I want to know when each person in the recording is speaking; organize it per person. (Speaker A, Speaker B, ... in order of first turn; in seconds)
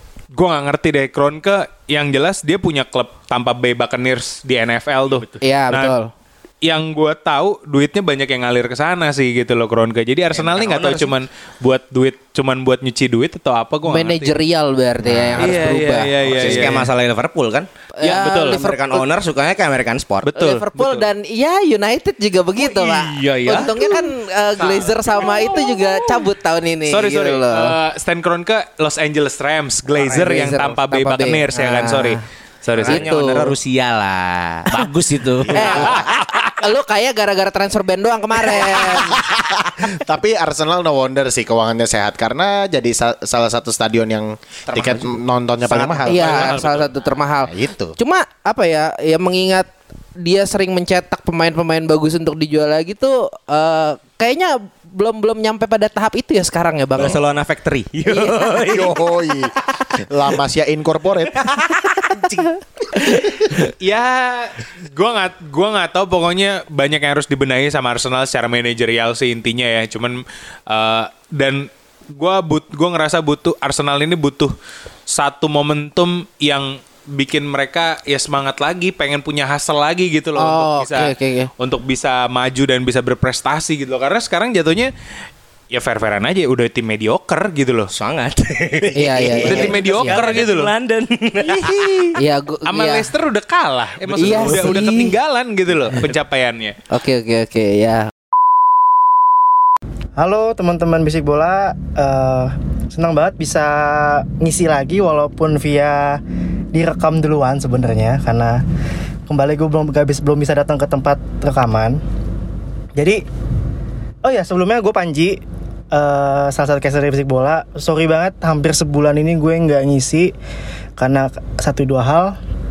Speaker A: 0.4-6.0, 6.7-14.4, 15.4-16.9, 18.0-18.6, 20.2-21.1, 22.6-24.1, 24.7-25.8, 26.9-33.0, 35.8-36.5, 46.1-46.9, 63.8-74.5, 75.1-84.9, 85.7-87.9, 89.4-90.7, 91.5-92.2, 92.7-96.8
Speaker B: 5.4-6.1, 13.9-16.8, 18.0-19.1, 20.3-27.8, 29.9-32.2, 32.8-33.5, 35.5-39.2, 46.1-57.2, 58.1-58.5, 80.4-81.5, 89.0-90.3, 92.2-93.1, 94.2-95.2, 96.9-98.1
Speaker C: 10.3-11.2, 16.3-17.7, 18.2-20.3, 24.9-25.3, 32.8-36.0, 44.7-46.4, 57.0-59.0, 61.3-62.4, 87.9-92.1, 94.1-94.7
Speaker D: 15.0-15.6, 35.6-36.1, 38.9-46.6, 47.5-48.0, 58.7-61.5
Speaker E: 100.2-106.2, 106.7-108.6, 109.3-112.0, 113.0-113.2, 114.2-115.4, 115.9-120.3, 121.0-122.4